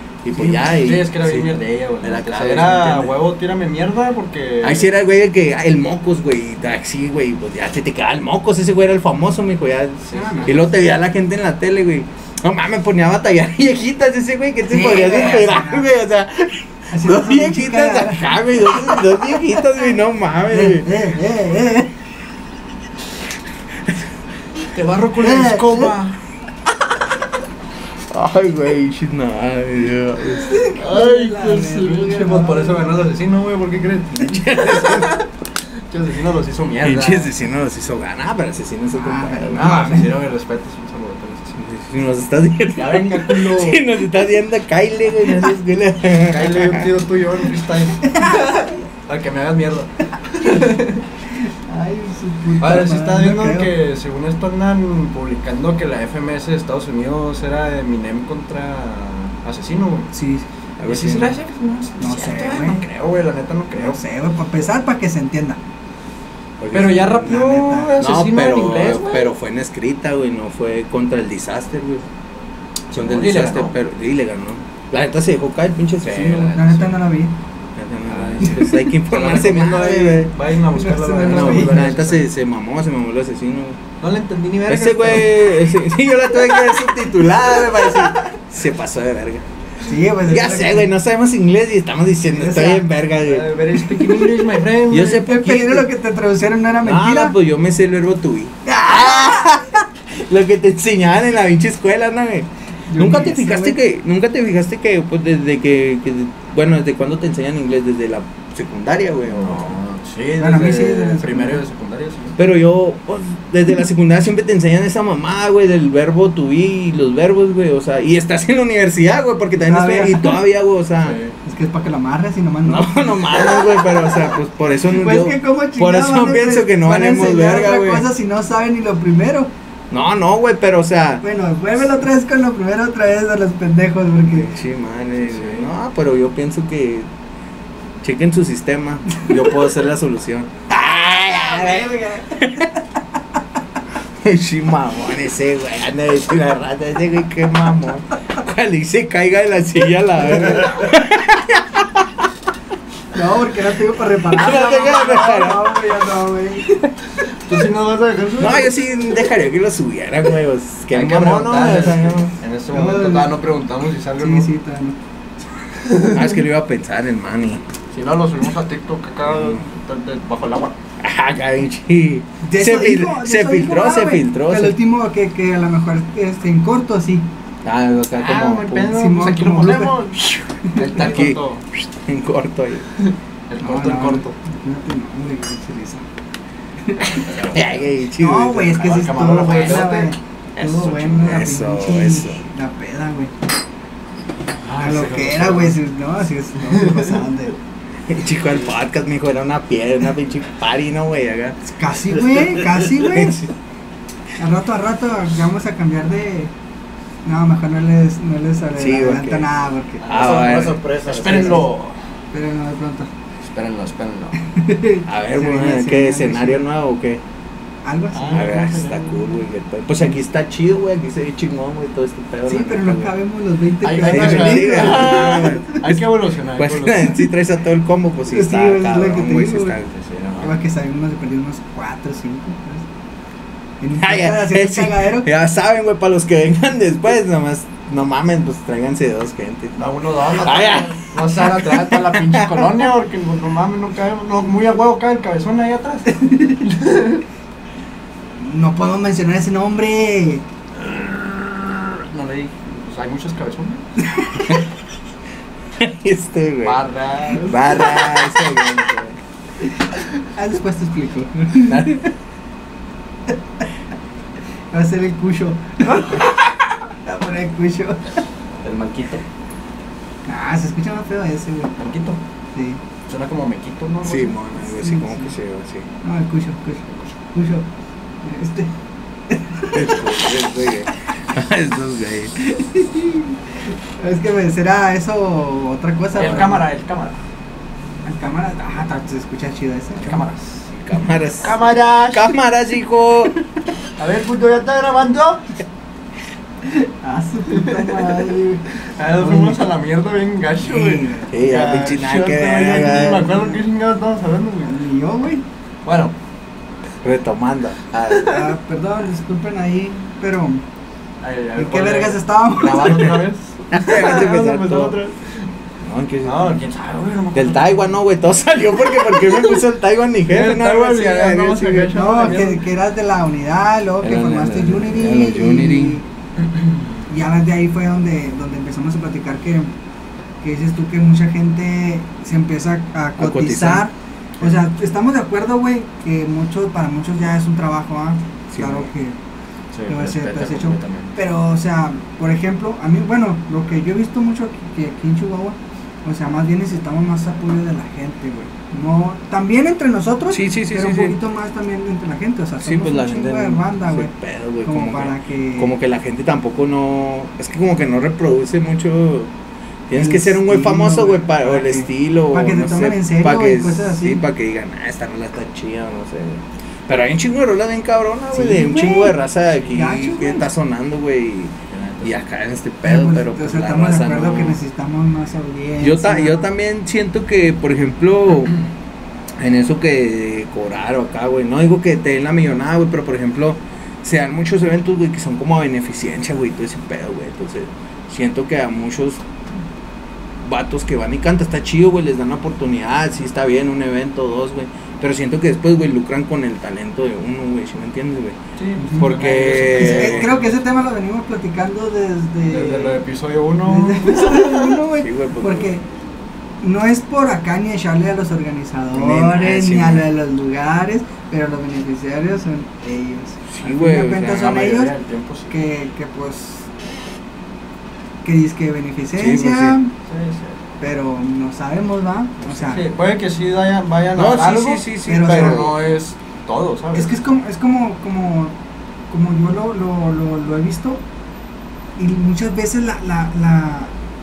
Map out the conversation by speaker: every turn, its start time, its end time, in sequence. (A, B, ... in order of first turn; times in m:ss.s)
0:00.2-0:03.1 A
0:00.3-0:04.9 B
0:04.6-0:20.9 A
0:10.0-0:10.7 B
0:10.1-0:10.5 C
0:14.7-0:15.9 C
0:16.9-0:19.8 C
0:20.5-0:21.9 C
0:24.7-0:26.2 B
0:25.2-0:25.9 C
0:28.1-0:30.5 A
0:30.2-0:35.2 B
0:30.4-0:33.1 C
0:34.2-0:35.2 A
0:35.9-0:37.3 B
0:36.8-0:40.1 A
0:38.9-0:40.1 C
0:39.5-0:41.5 B
0:41.5-0:46.9 A
0:42.8-0:43.8 B
0:46.2-0:51.0 B
0:48.0-0:48.7 C
0:51.4-0:53.7 C
0:52.6-1:00.1 B
1:00.1-1:00.4 C
1:00.8-1:01.4 A
1:00.9-1:04.0 B
1:02.0-1:02.8 C
1:03.7-1:05.6 C
1:06.6-1:07.3 A
1:06.7-1:09.3 B
1:07.2-1:07.9 C
1:08.0-1:12.0 A
1:12.9-1:16.6 A
1:12.9-1:13.7 B
1:16.0-1:16.9 B
1:16.5-1:17.3 C
1:17.8-1:20.3 A
1:18.1-1:18.6 B
1:18.4-1:21.9 C
1:20.2-1:22.2 B
1:21.2-1:23.8 A
1:24.0-1:25.7 B
1:24.6-1:29.4 A
1:29.8-1:30.9 C
1:30.3-1:33.5 A
1:32.3-1:32.9 C
1:33.2-1:35.3 B
1:33.9-1:34.2 C
1:34.9-1:35.8 A
1:35.2-1:37.3 C
1:36.8-1:49.8 A
1:38.6-1:39.8 C
1:42.9-1:43.8 C
1:49.3-1:52.4 B
1:50.4-1:51.6 C
1:52.4-2:01.2 A
1:59.6-2:00.4 C
2:01.0-2:01.3 B
2:01.4-2:04.4 C
2:02.6-2:08.1 A
2:04.9-2:09.5 C
2:09.9-2:11.2 A
2:11.2-2:14.5 C
2:14.3-2:17.1 A
2:15.2-2:15.7 B
2:18.0-2:22.7 A
2:21.3-2:22.6 C
2:24.2-2:32.2 A
2:30.4-2:30.7 C
2:33.1-2:36.8 C
2:34.3-2:35.7 A
2:37.4-2:38.7 B
2:38.4-2:42.3 A
2:40.9-2:44.5 B
2:42.7-2:43.3 C
2:44.2-2:45.0 C
2:45.8-2:46.4 B
2:46.1-2:47.6 A
2:47.9-2:50.7 B
2:49.3-2:49.6 A
2:51.0-2:54.8 A
2:52.4-2:57.3 C
2:57.6-2:58.9 A
2:58.2-3:01.6 B
2:58.9-3:01.0 C
3:00.8-3:02.9 A
3:03.0-3:04.3 B
3:03.6-3:06.0 C
3:06.8-3:07.3 C
3:07.0-3:08.0 B
3:07.5-3:09.8 A
3:08.2-3:13.3 C
3:08.7-3:10.1 B
3:10.6-3:12.4 A
3:14.6-3:15.8 B
3:14.8-3:17.5 C
3:16.6-3:17.2 B
3:18.1-3:23.5 A
3:21.6-3:23.4 C
3:24.4-3:26.5 C
3:27.2-3:30.1 C
3:28.8-3:29.5 A
3:30.0-3:32.0 B
3:30.1-3:31.7 A
3:31.3-3:31.6 C
3:32.3-3:33.1 C
3:33.4-3:34.3 B
3:34.4-3:36.6 C
3:35.1-3:37.2 A
3:37.8-3:39.0 C
3:38.1-3:39.1 B
3:38.3-3:43.1 A
3:42.5-3:45.8 C
3:43.8-3:47.2 B
3:44.1-3:46.0 A
3:46.6-3:49.9 A
3:48.3-3:49.8 C
3:49.9-3:50.6 B
3:50.4-3:52.8 C
3:53.8-3:55.3 C
3:54.0-3:59.8 A
3:59.8-4:07.2 B
4:00.3-4:02.6 A
4:08.4-4:10.4 C
4:10.8-4:13.8 B
4:14.0-4:14.6 C
4:15.8-4:16.8 A
4:16.6-4:17.6 B
4:17.4-4:19.2 A
4:20.3-4:22.1 C
4:21.6-4:22.0 A
4:24.7-4:28.2 C
4:28.6-4:29.2 B
4:30.2-4:31.7 C
4:31.8-4:32.2 B
4:32.5-4:32.8 C
4:33.1-4:34.4 B
4:34.0-4:35.9 A
4:34.6-4:35.3 C
4:36.0-4:37.6 C
4:38.2-4:38.7 C
4:39.3-4:40.2 C
4:39.7-4:42.4 A
4:42.4-4:46.7 C
4:46.1-4:47.2 B
4:48.0-4:50.3 C
4:50.0-4:52.3 B
4:50.8-4:53.4 A
4:54.0-4:55.6 B
4:56.6-4:59.6 C
4:57.5-5:04.8 B
5:00.6-5:01.3 C
5:01.3-5:03.3 A
5:03.2-5:03.6 C
5:04.6-5:05.4 C
5:05.8-5:06.1 B
5:07.0-5:08.4 A
5:08.1-5:08.5 B
5:08.3-5:10.6 C
5:11.2-5:15.5 B
5:11.6-5:13.2 C
5:12.6-5:14.9 A
5:15.8-5:16.6 A
5:16.2-5:18.0 B
5:17.3-5:21.9 A
5:19.1-5:19.4 B
5:20.3-5:22.6 B
5:21.9-5:26.0 C
5:24.0-5:26.0 A
5:26.4-5:27.0 B
5:27.1-5:29.7 C
5:30.4-5:39.2 C
5:33.2-5:33.8 A
5:38.5-5:38.9 A
5:39.7-5:41.1 B
5:39.9-5:54.1 C
5:50.3-5:51.2 A
5:52.6-5:59.3 A
5:54.6-5:55.7 C
5:59.9-6:14.6 A
5:59.9-6:04.2 C
6:08.3-6:09.2 C
6:09.7-6:10.5 C
6:11.7-6:12.2 B
6:12.8-6:16.5 C
6:15.8-6:18.6 A
6:19.4-6:29.2 A
6:30.4-6:38.4 A
6:38.6-6:40.5 B
6:38.8-6:39.1 C
6:39.0-6:40.3 A
6:39.7-6:43.0 C
6:42.5-6:44.8 B
6:43.6-6:45.8 C
6:45.0-6:45.7 A
6:46.6-6:54.9 C
6:48.9-6:50.0 A
6:53.5-6:54.6 A
6:54.2-6:55.5 B
6:55.5-6:56.7 C
6:58.2-6:59.9 C
6:59.2-6:59.8 A
7:00.0-7:00.6 B
7:00.8-7:02.8 C
7:02.4-7:02.7 A
7:02.7-7:07.2 B
7:04.1-7:05.7 A
7:05.1-7:05.7 C
7:06.9-7:08.5 C
7:09.1-7:11.0 C
7:12.0-7:13.9 C